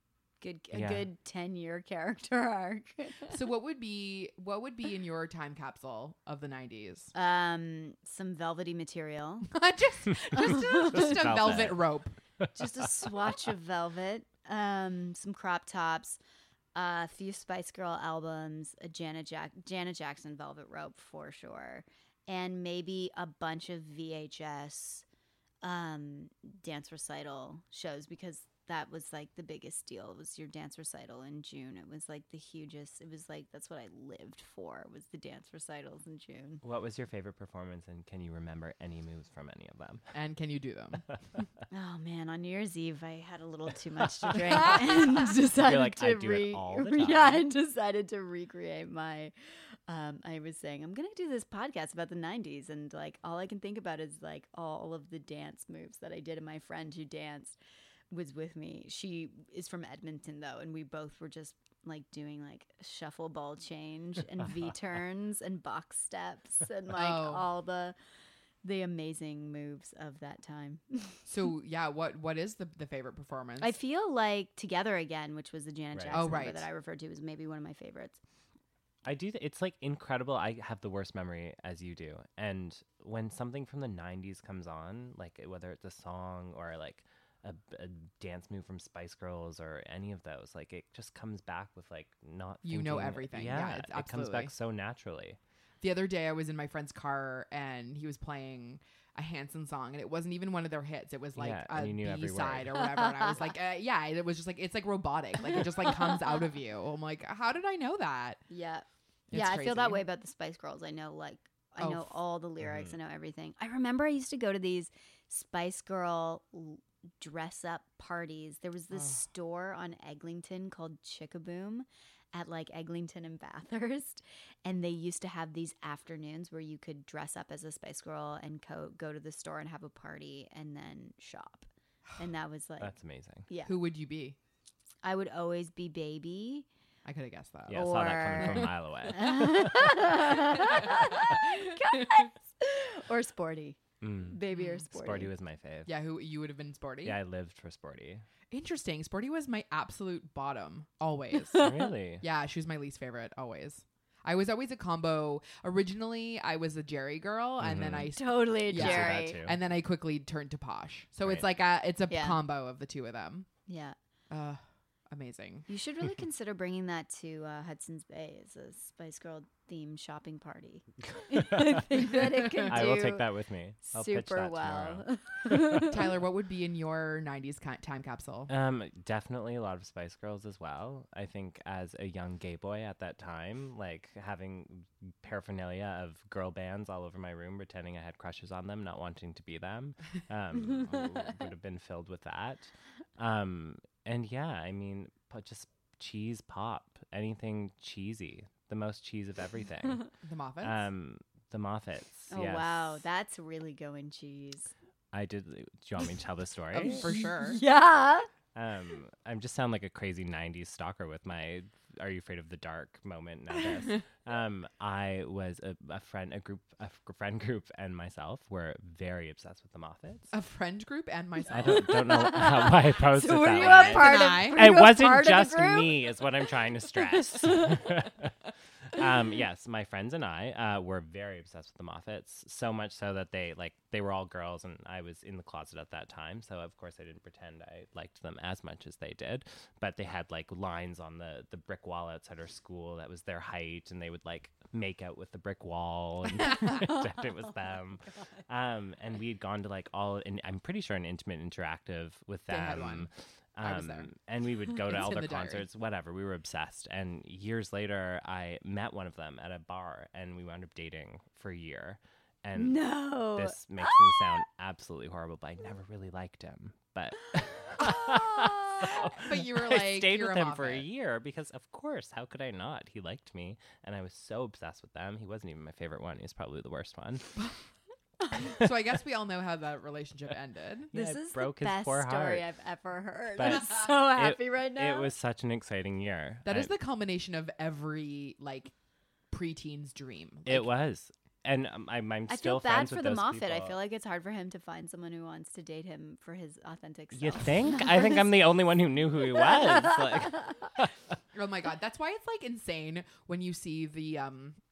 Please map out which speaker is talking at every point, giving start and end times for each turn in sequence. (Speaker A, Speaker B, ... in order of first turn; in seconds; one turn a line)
Speaker A: 0.4-3.4
Speaker B: 0.7-1.1
Speaker C: 3.3-7.1
Speaker A: 7.1-9.5
Speaker C: 9.5-12.2
Speaker A: 10.4-11.2
Speaker B: 10.8-11.9
Speaker B: 12.4-12.9
Speaker A: 12.6-16.2
Speaker A: 16.8-25.1
Speaker A: 25.6-36.6
Speaker B: 36.6-40.0
Speaker C: 40.1-41.1
Speaker A: 41.7-49.3
Speaker B: 44.3-47.4
Speaker A: 49.9-57.6
Speaker A: 58.1-68.0
Speaker C: 66.9-67.5
Speaker A: 68.6-71.2
Speaker C: 71.3-73.8
Speaker A: 73.6-78.2
Speaker B: 75.9-76.2
Speaker C: 76.1-76.7
Speaker B: 79.0-95.4
Speaker C: 92.6-94.5
Speaker C: 95.8-108.4
Speaker B: 101.4-102.9
Speaker A: 102.9-103.4
Speaker A: 105.5-106.3
Speaker A: 108.5-132.9
Speaker C: 109.3-110.0
Speaker C: 111.8-112.2
Speaker B: 112.6-112.9
Speaker C: 118.9-119.2
Speaker B: 132.8-133.5
Speaker A: 133.5-133.8
Speaker C: 133.7-134.4
Speaker A: 135.0-136.7
Speaker C: 137.1-137.9
Speaker B: 137.7-140.5
Speaker A: 137.7-145.3
Speaker C: 138.4-138.7
Speaker C: 140.6-142.2
Speaker B: 144.0-145.9
Speaker C: 144.5-144.8
Speaker C: 145.9-147.2
Speaker B: 147.0-148.3
Speaker C: 148.5-163.5
Speaker A: 151.5-151.9
Speaker B: 151.6-152.2
Speaker B: 157.6-158.1
Speaker A: 158.2-159.4
Speaker B: 158.7-159.6
Speaker A: 162.1-162.4
Speaker A: 163.7-164.0
Speaker C: 164.3-165.7
Speaker A: 165.7-173.3
Speaker B: 171.3-176.0
Speaker C: 172.1-172.8
Speaker A: 173.9-176.0
Speaker C: 175.8-178.5
Speaker B: 178.5-200.1
Speaker C: 200.2-200.8
Speaker B: 200.6-203.0
Speaker A: 202.3-204.7
Speaker B: 205.1-207.1
Speaker C: 206.7-207.6
Speaker A: 206.8-208.3
Speaker B: 208.6-220.3
Speaker C: 220.3-222.1
Speaker B: 221.5-277.4
Speaker A: 221.7-226.1
Speaker C: 223.5-224.8
Speaker A: 227.3-227.6
Speaker C: 252.5-253.1
Speaker C: 253.6-254.1
Speaker C: 254.8-255.7
Speaker A: 262.6-263.9
Speaker C: 268.8-270.9
Speaker C: 278.4-280.9
Speaker B: 280.9-282.4
Speaker A: 280.9-285.1
Speaker B: 283.4-286.7
Speaker C: 286.4-288.7
Speaker C: 289.3-290.7
Speaker B: 290.4-293.8
Speaker A: 292.3-298.2
Speaker B: 297.1-301.2
Speaker C: 301.3-304.6